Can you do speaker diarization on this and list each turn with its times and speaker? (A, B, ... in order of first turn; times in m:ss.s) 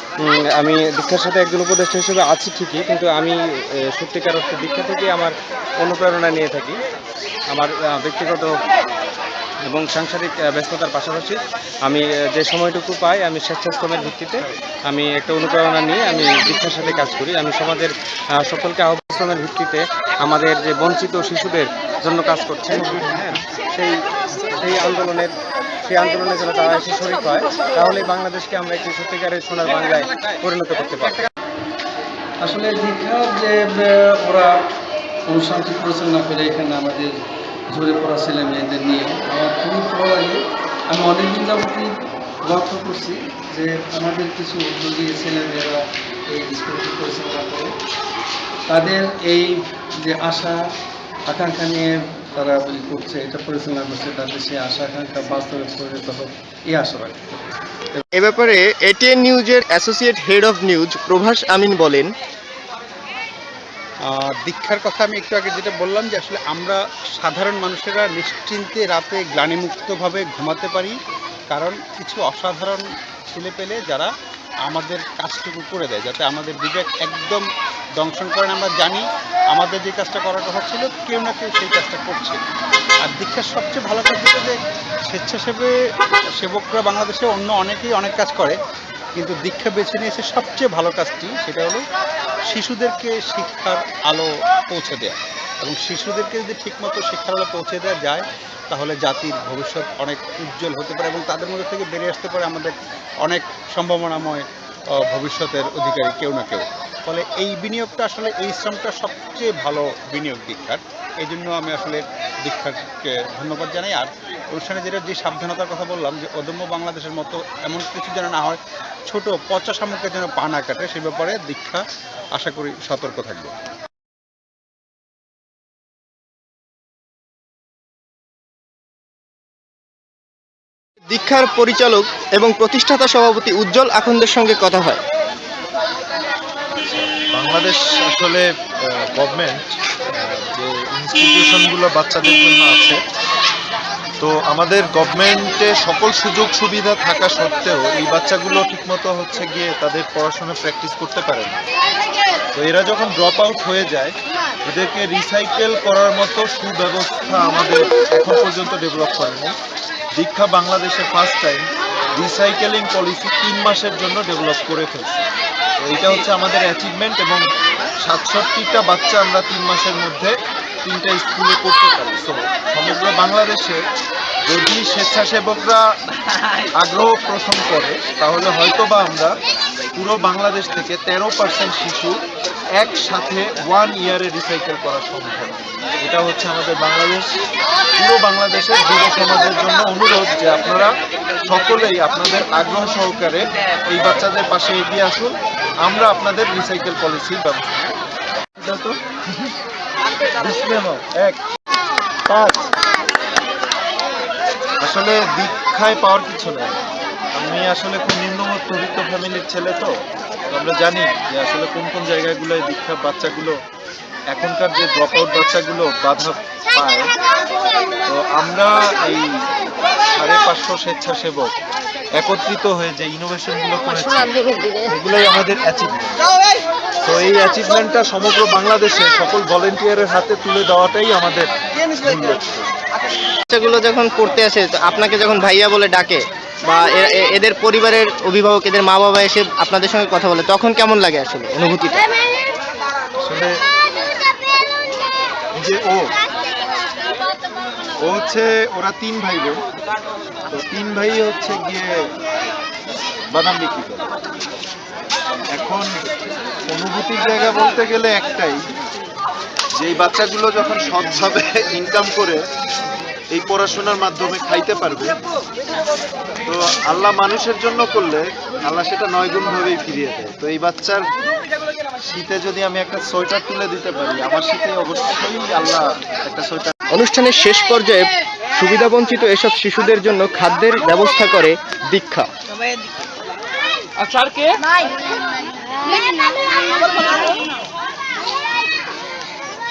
0:00.2-0:03.4 A
0:03.9-0:06.8 A
0:07.5-0:08.5 A
0:09.7-0:25.3 A
0:25.8-0:31.2 A
0:32.5-0:33.5 B
0:32.9-0:33.5 C
0:35.4-0:37.0 B
0:35.6-0:36.8 C
0:38.0-0:40.4 B
0:38.5-0:40.3 C
0:40.9-0:41.8 C
0:41.0-0:41.7 B
0:42.5-0:45.7 C
0:42.7-0:43.1 B
0:45.3-0:45.6 B
0:46.5-0:47.2 B
0:46.5-0:47.6 C
0:48.7-0:49.5 C
0:50.1-0:50.5 C
0:51.3-0:51.9 C
0:52.4-0:57.4 C
0:58.1-1:02.1 D
1:04.4-1:10.9 E
1:11.5-1:14.1 E
1:14.7-1:17.4 E
1:18.0-1:19.0 E
1:19.5-1:22.4 E
1:23.0-1:24.5 E
1:25.1-1:25.7 E
1:26.4-1:28.6 E
1:29.2-1:31.8 E
1:32.5-1:42.7 E
1:43.2-1:44.4 E
1:45.1-2:01.8 E
2:02.4-2:03.5 E
2:11.1-2:15.0 D
2:16.8-2:23.0 F
2:24.2-2:31.6 F
2:32.5-2:34.1 F
2:34.6-2:39.5 F
2:40.2-2:45.3 F
2:45.8-2:47.4 F
2:48.0-2:50.3 F
2:50.8-2:53.8 F
2:54.5-2:55.8 F
2:56.8-2:59.3 F
2:59.9-3:02.2 F
3:02.8-3:07.4 F
3:08.0-3:10.9 F
3:11.4-3:17.8 F
3:18.6-3:19.0 F
3:20.4-3:21.4 F
3:22.3-3:22.6 F
3:24.8-3:26.8 F
3:27.3-3:29.9 F
3:30.5-3:33.5 F
3:34.3-3:37.1 F
3:38.1-3:39.2 F
3:40.1-3:41.5 F
3:42.2-3:46.2 F
3:47.0-3:51.5 F
3:52.0-3:52.7 F
3:53.5-4:02.1 D
4:03.2-4:03.6 F
4:05.5-4:06.0 F
4:08.0-4:09.6 F
4:10.5-4:11.9 F
4:13.3-4:14.1 F
4:15.5-4:16.1 F
4:16.7-4:18.6 F
4:19.8-4:22.4 F
4:23.3-4:25.2 F
4:26.5-4:31.0 F
4:32.0-4:36.7 F
4:36.9-4:42.3 D